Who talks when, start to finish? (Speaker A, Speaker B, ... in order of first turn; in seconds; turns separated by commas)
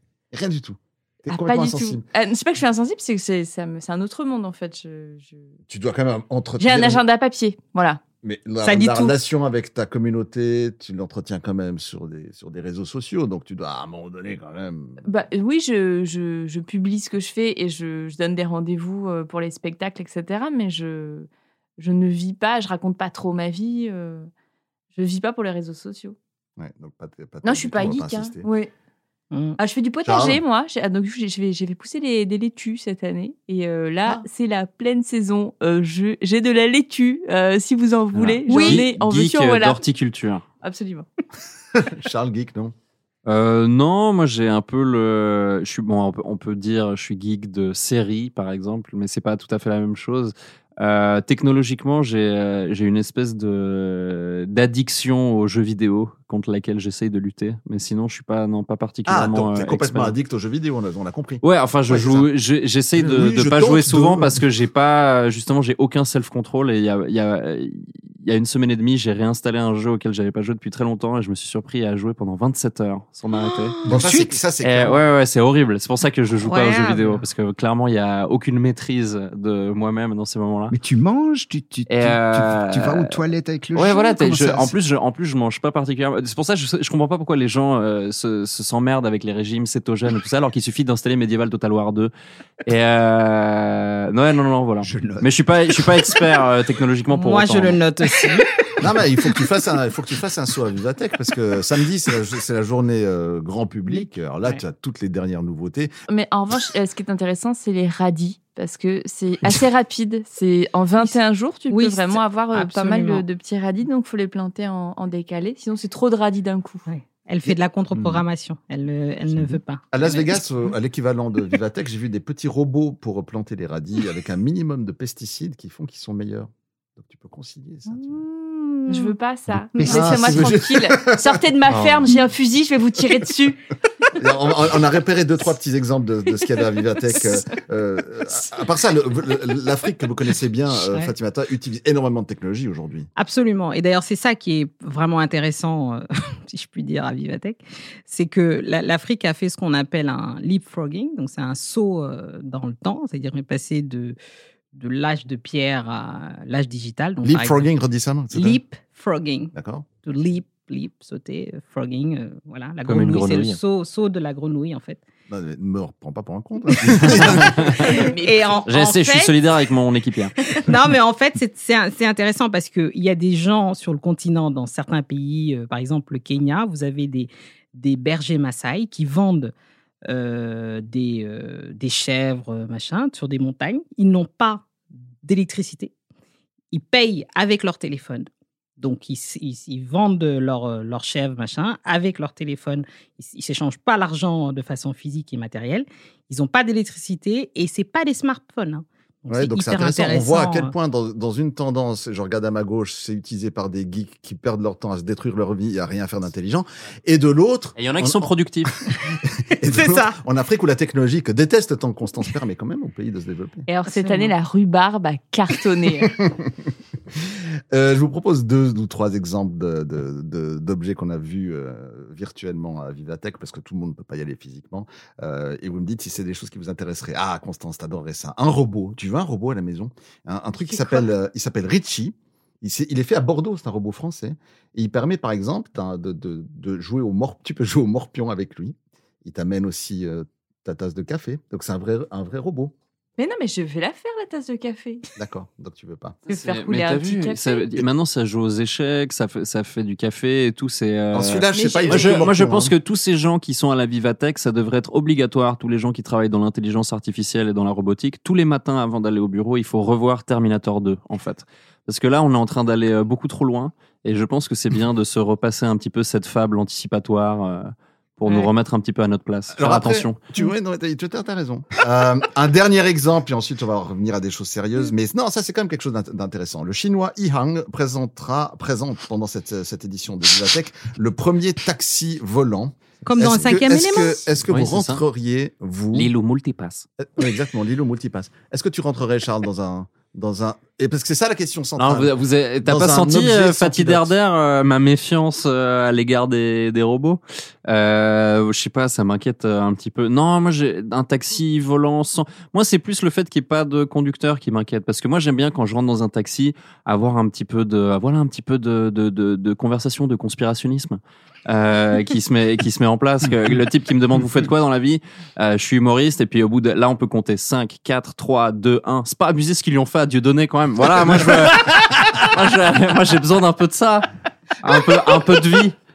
Speaker A: 0.3-2.0, Speaker B: 1.3-5.6, Speaker A: 5.7-7.0, Speaker B: 6.6-8.0, Speaker A: 8.2-15.0, Speaker C: 8.6-9.2, Speaker B: 15.1-21.3, Speaker B: 21.8-24.3, Speaker B: 24.9-26.2, Speaker A: 26.6-28.4, Speaker B: 27.4-28.7, Speaker C: 29.3-29.6, Speaker B: 29.6-39.8, Speaker A: 30.1-30.4, Speaker D: 38.1-40.4, Speaker C: 38.5-38.9, Speaker B: 40.6-41.1, Speaker A: 41.8-42.8, Speaker D: 43.3-60.1, Speaker A: 59.1-62.3, Speaker D: 61.4-73.8, Speaker A: 63.0-64.4, Speaker C: 73.3-74.0, Speaker E: 73.8-74.4, Speaker A: 73.9-75.0, Speaker D: 74.6-80.8, Speaker C: 76.4-77.2, Speaker E: 80.7-84.8, Speaker D: 81.9-83.2, Speaker D: 83.8-92.1, Speaker D: 92.7-97.8, Speaker E: 94.8-95.9, Speaker C: 97.1-98.8, Speaker A: 98.8-105.9, Speaker C: 103.9-104.6, Speaker B: 106.1-116.9, Speaker C: 111.7-113.2, Speaker C: 116.9-120.4, Speaker A: 118.0-118.2, Speaker E: 119.3-119.6, Speaker A: 119.9-128.2, Speaker C: 127.9-129.1, Speaker B: 128.9-133.6, Speaker E: 129.8-130.5, Speaker A: 129.8-132.2, Speaker A: 134.2-143.1, Speaker C: 143.2-154.2, Speaker C: 154.7-157.7, Speaker A: 157.2-158.6, Speaker C: 158.3-159.5, Speaker A: 159.5-159.9, Speaker C: 160.0-165.0, Speaker D: 162.8-163.6, Speaker A: 165.3-167.8, Speaker C: 166.7-169.4, Speaker D: 167.0-167.9, Speaker B: 167.9-168.7, Speaker D: 168.7-170.3, Speaker C: 170.4-179.5, Speaker C: 180.1-184.7, Speaker C: 185.2-185.9, Speaker C: 186.7-188.3, Speaker C: 188.8-200.7, Speaker A: 199.3-213.7, Speaker D: 207.8-208.7, Speaker C: 209.6-210.2, Speaker C: 213.7-214.3, Speaker B: 213.8-216.1, Speaker A: 216.0-216.5, Speaker A: 217.7-242.7, Speaker B: 230.7-231.1, Speaker B: 243.2-245.1, Speaker A: 245.2-246.2, Speaker D: 246.3-270.2, Speaker B: 246.3-247.8, Speaker A: 251.1-252.8, Speaker B: 251.5-252.3, Speaker A: 269.5-286.1, Speaker C: 283.0-284.2, Speaker D: 284.5-285.0, Speaker D: 285.9-286.9, Speaker A: 287.0-292.1, Speaker D: 291.8-324.1, Speaker A: 292.6-294.1, Speaker D: 324.6-325.8